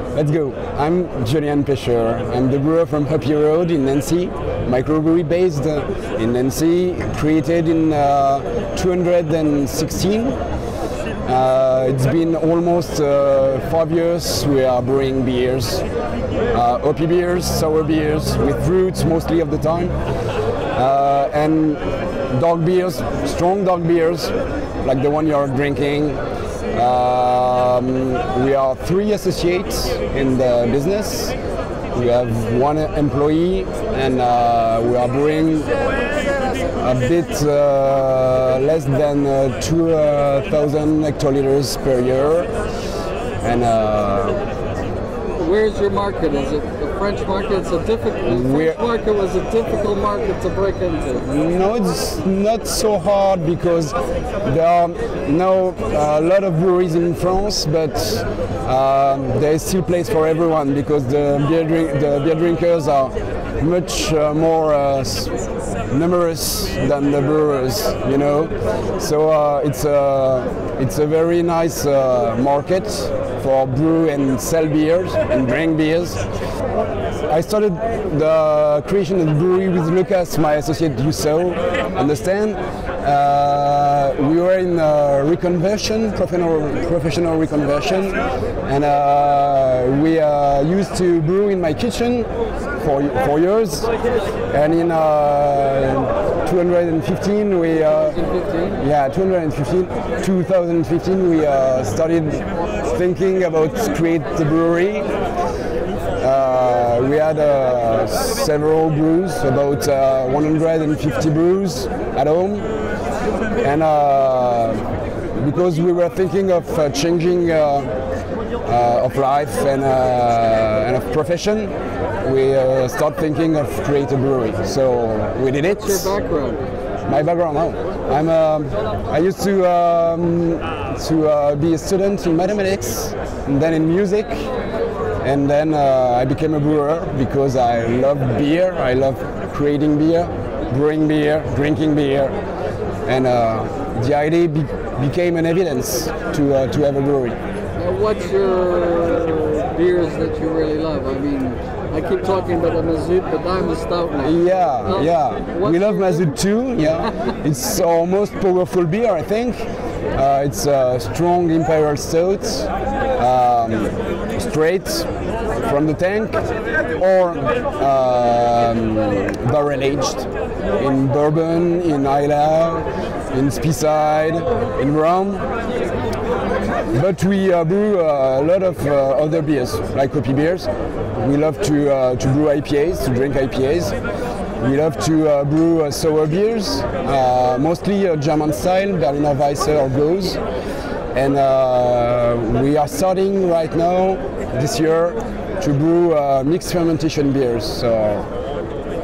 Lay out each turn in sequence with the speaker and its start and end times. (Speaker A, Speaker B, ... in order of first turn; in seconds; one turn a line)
Speaker A: 0.1-10.4
Speaker A: 11.2-15.8
Speaker A: 16.5-20.0
Speaker A: 20.7-26.2
Speaker A: 26.7-31.4
Speaker A: 31.9-35.7
Speaker A: 36.8-42.5
Speaker A: 43.4-44.4
Speaker B: 45.4-51.3
Speaker A: 48.3-48.8
Speaker A: 51.2-65.3
Speaker A: 65.9-76.3
Speaker A: 77.2-93.9
Speaker A: 94.5-98.2
Speaker B: 97.7-98.8
Speaker A: 98.7-105.1
Speaker A: 106.2-112.7
Speaker A: 113.6-117.9
Speaker A: 118.6-126.1
Speaker B: 125.8-126.6
Speaker A: 127.1-134.5
Speaker A: 135.2-142.4
Speaker A: 143.1-147.4
Speaker B: 147.8-156.4
Speaker A: 154.2-165.1
Speaker A: 165.6-175.5
Speaker A: 176.9-183.9
Speaker A: 184.6-190.4
Speaker A: 191.1-198.3